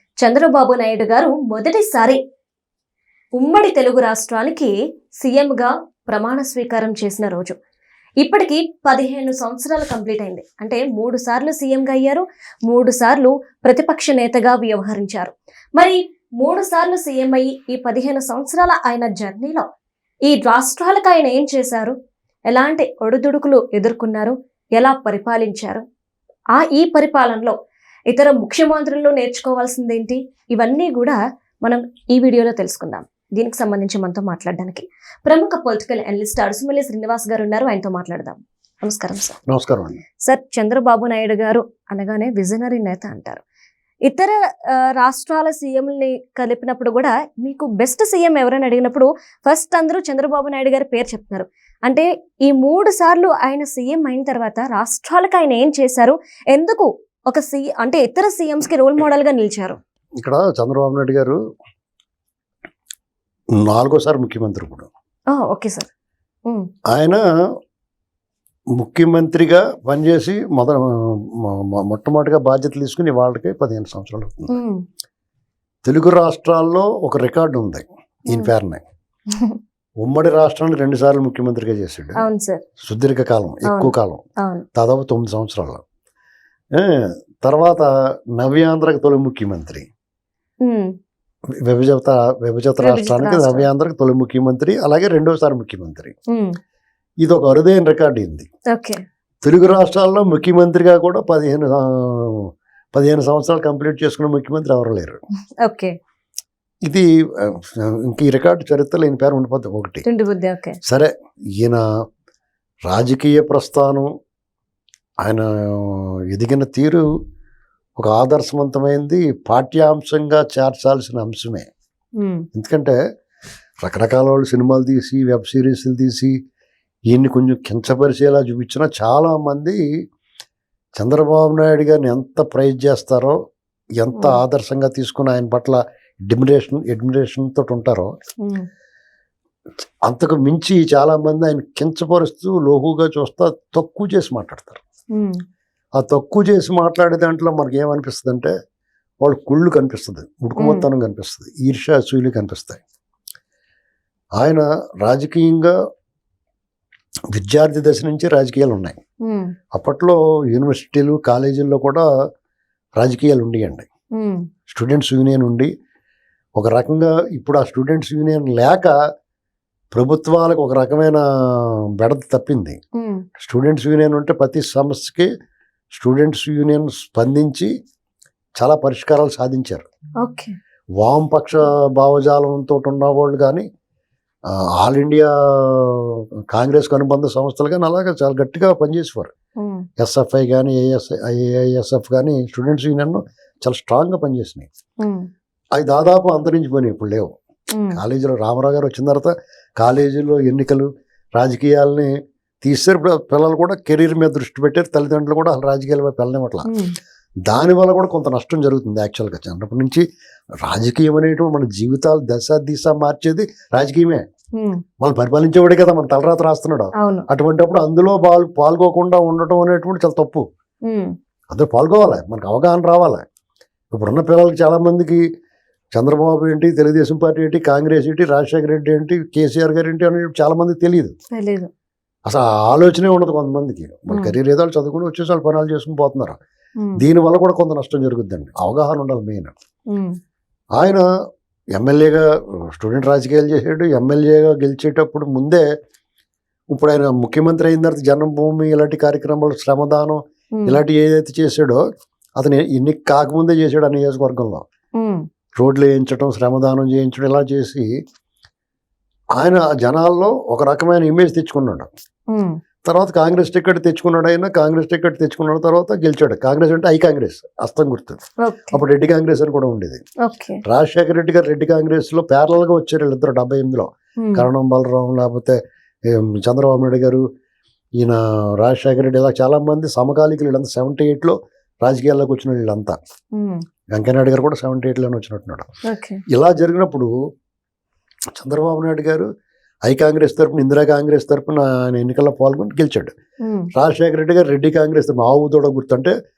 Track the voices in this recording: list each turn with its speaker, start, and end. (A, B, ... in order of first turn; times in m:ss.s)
0:00.2-0:02.2 A
0:03.4-0:07.6 A
0:08.2-0:19.6 A
0:20.3-0:22.0 A
0:22.5-0:25.8 A
0:26.6-0:27.6 A
0:28.1-0:39.4 A
0:39.5-0:40.0 B
0:40.3-0:43.4 A
0:44.1-0:59.8 A
1:00.2-1:01.4 B
1:03.6-1:04.9 B
1:05.3-1:05.9 A
1:06.9-1:07.2 B
1:08.8-1:14.6 B
1:14.5-1:14.8 A
1:15.8-1:18.8 B
1:20.0-1:22.2 B
1:22.2-1:22.6 A
1:22.8-1:24.2 B
1:23.7-1:24.6 A
1:24.8-1:25.8 B
1:26.8-1:27.9 B
1:28.4-1:29.8 B
1:30.6-1:30.9 A
1:31.6-1:36.1 B
1:32.8-1:33.7 A
1:37.2-1:38.5 B
1:38.7-1:39.0 A
1:39.4-1:45.2 B
1:45.6-1:45.9 A
1:46.9-1:50.0 B
1:50.0-1:50.8 A
1:50.8-1:51.8 B
1:52.9-1:54.1 B
1:55.2-1:57.0 B
1:58.0-2:01.7 B
2:02.5-2:03.0 B
2:03.8-2:06.3 B
2:07.1-2:09.8 B
2:11.0-2:13.4 B
2:14.0-2:18.1 B
2:14.2-2:14.4 A
2:20.1-2:24.8 B
2:26.0-2:28.5 B
2:29.2-2:32.8 B
2:30.6-2:30.8 A
2:34.4-2:35.7 B
2:37.3-2:39.0 B
2:39.3-2:39.5 A
2:39.7-2:42.0 B
2:43.0-2:43.9 B
2:44.2-2:44.4 A
2:44.7-2:45.7 B
2:46.6-2:48.9 B
2:49.9-2:52.8 B
2:53.0-2:53.2 A
2:53.4-2:55.3 B
2:55.9-2:57.7 B
2:58.6-2:59.9 B
3:00.2-3:00.6 A
3:01.0-3:03.7 B
3:04.8-3:09.3 B
3:09.6-3:09.9 A
3:10.0-3:14.7 B
3:15.0-3:15.3 A
3:15.8-3:17.3 B
3:17.8-3:18.0 A
3:17.9-3:26.7 B
3:26.7-3:26.9 A
3:27.5-3:30.0 B
3:30.6-3:34.2 B
3:34.6-3:34.8 A
3:35.0-3:40.4 B
3:37.0-3:37.2 A
3:40.9-3:41.1 A
3:41.5-3:43.2 B
3:43.9-3:45.2 B
3:45.9-3:51.1 B
3:51.3-3:51.7 A
3:52.3-3:56.4 B
3:57.0-3:59.5 B
4:00.8-4:01.0 B
4:01.8-4:05.6 B
4:06.7-4:11.8 B
4:12.4-4:14.6 B
4:15.0-4:15.2 A
4:15.6-4:17.9 B
4:19.4-4:21.9 B
4:22.8-4:28.2 B
4:28.4-4:28.8 A
4:28.7-4:30.0 B
4:30.2-4:30.6 A
4:30.6-4:35.6 B
4:34.2-4:34.5 A
4:36.1-4:37.2 B
4:38.0-4:43.0 B
4:43.4-4:43.6 A
4:43.9-4:45.7 B
4:45.9-4:46.2 A
4:46.3-4:47.1 B
4:48.4-4:49.3 B
4:49.9-4:53.1 B
4:53.8-4:56.1 B